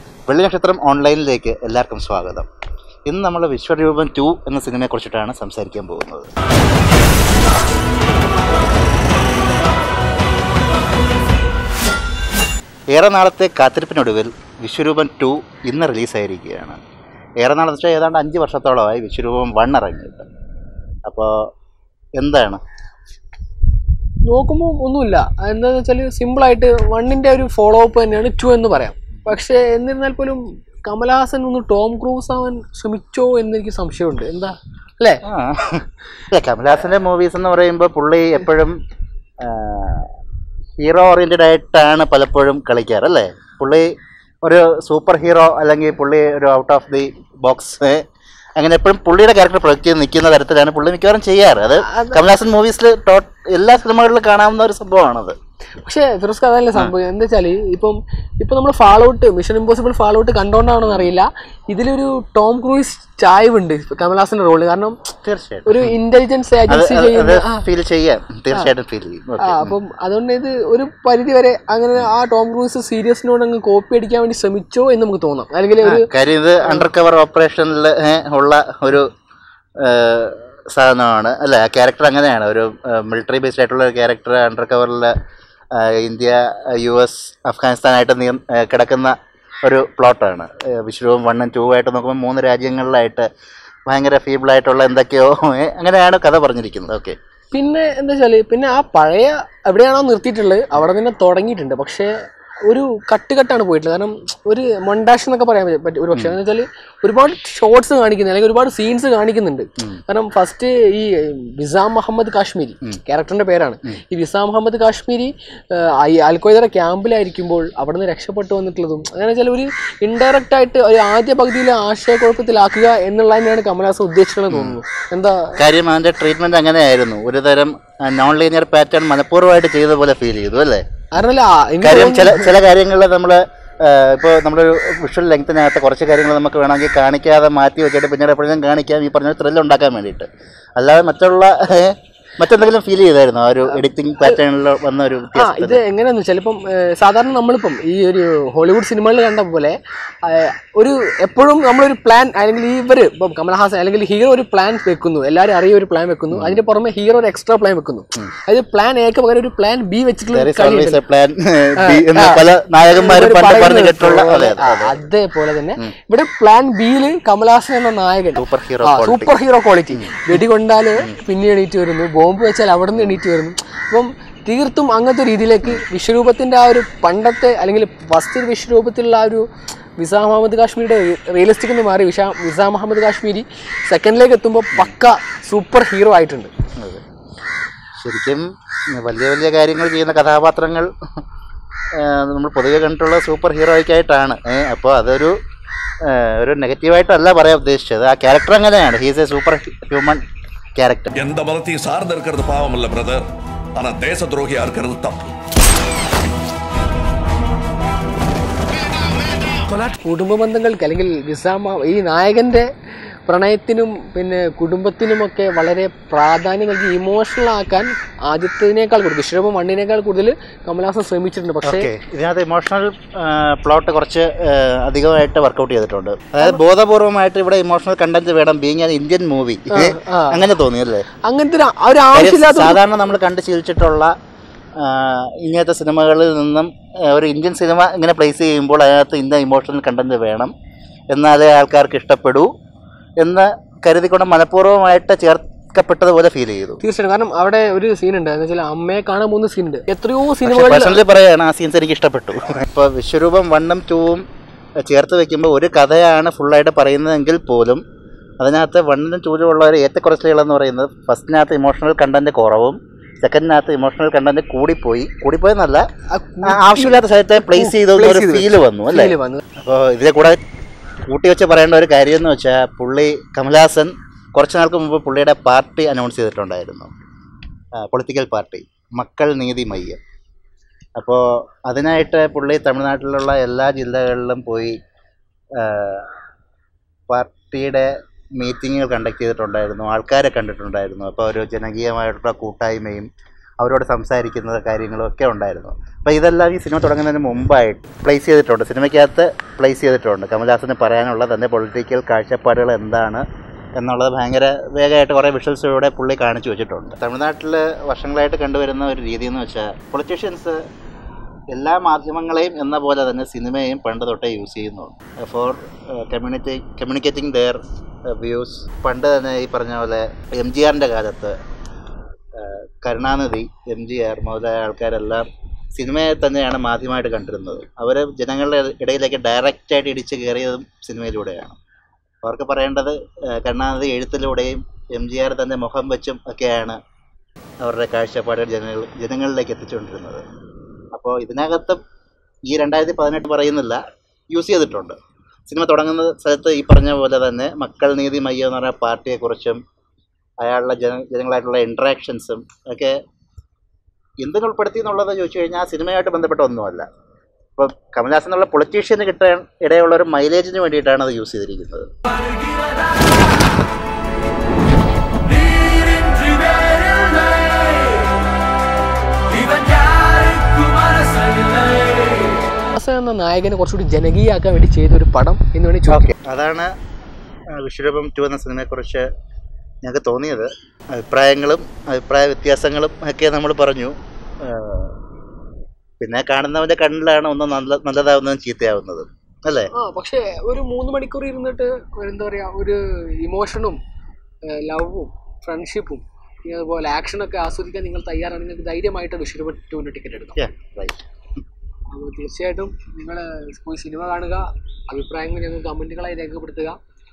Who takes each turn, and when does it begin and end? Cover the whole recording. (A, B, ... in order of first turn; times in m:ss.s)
0:00.3-0:02.5 A
0:03.1-0:06.3 A
0:13.0-0:16.8 A
0:17.4-0:20.3 A
0:21.1-0:21.3 A
0:22.2-0:22.6 A
0:24.3-0:35.2 B
0:35.2-0:38.8 A
0:39.4-0:40.1 A
0:40.8-0:43.9 A
0:44.4-0:48.0 A
0:48.6-0:55.4 A
0:51.8-0:52.3 B
0:55.8-1:05.1 B
1:05.2-1:05.9 A
1:05.7-1:07.6 B
1:06.7-1:09.8 A
1:09.4-1:16.1 B
1:15.8-1:19.1 A
1:19.8-1:25.1 A
1:25.8-1:29.1 A
1:29.6-1:33.3 A
1:33.9-1:37.2 A
1:37.5-1:42.1 B
1:42.7-2:05.6 B
2:04.5-2:04.8 A
2:05.6-2:10.8 A
2:11.1-2:12.6 B
2:11.8-2:25.8 A
2:25.4-2:41.0 B
2:36.3-2:36.6 A
2:40.3-2:45.0 A
2:41.8-2:59.4 B
2:48.4-2:49.3 A
2:49.9-2:50.3 A
3:00.0-3:06.5 B
3:06.8-3:07.0 A
3:08.0-3:10.9 A
3:12.0-3:15.4 A
3:16.0-3:20.2 A
3:20.8-3:21.2 A
3:21.2-3:23.2 C
3:23.8-3:25.3 C
3:29.7-3:32.7 B
3:33.3-3:41.9 B
3:41.6-3:51.1 A
3:49.7-3:50.4 B
3:51.2-3:52.8 B
3:52.1-3:54.1 A
3:54.8-4:00.5 A
4:01.1-4:02.5 A
4:03.2-4:06.8 A
4:06.8-4:11.0 B
4:10.4-4:14.2 A
4:14.8-4:17.8 A
4:18.4-4:25.8 A
4:26.1-4:29.4 B
4:26.4-4:30.4 A
4:31.1-4:36.9 A
4:37.8-4:40.0 A
4:41.0-4:44.8 A
4:45.6-4:46.1 A
4:47.1-4:53.1 A
4:53.6-5:03.2 A
5:03.8-5:10.6 A
5:11.5-5:21.4 A
5:22.4-5:25.3 A
5:25.8-5:31.6 A
5:32.2-5:36.8 A
5:37.6-5:40.2 A
5:40.9-5:41.8 A
5:42.5-5:43.8 A
5:44.3-5:45.0 A
5:45.5-5:49.6 A
5:50.4-5:53.0 A
5:54.2-5:56.9 A
5:57.6-6:01.9 A
6:12.7-6:16.1 B
6:15.9-6:16.7 A
6:17.6-6:19.1 A
6:19.8-6:25.0 A
6:26.0-6:29.7 A
6:29.8-6:33.8 B
6:34.5-6:40.4 B
6:40.4-6:41.0 A
6:41.9-6:46.8 B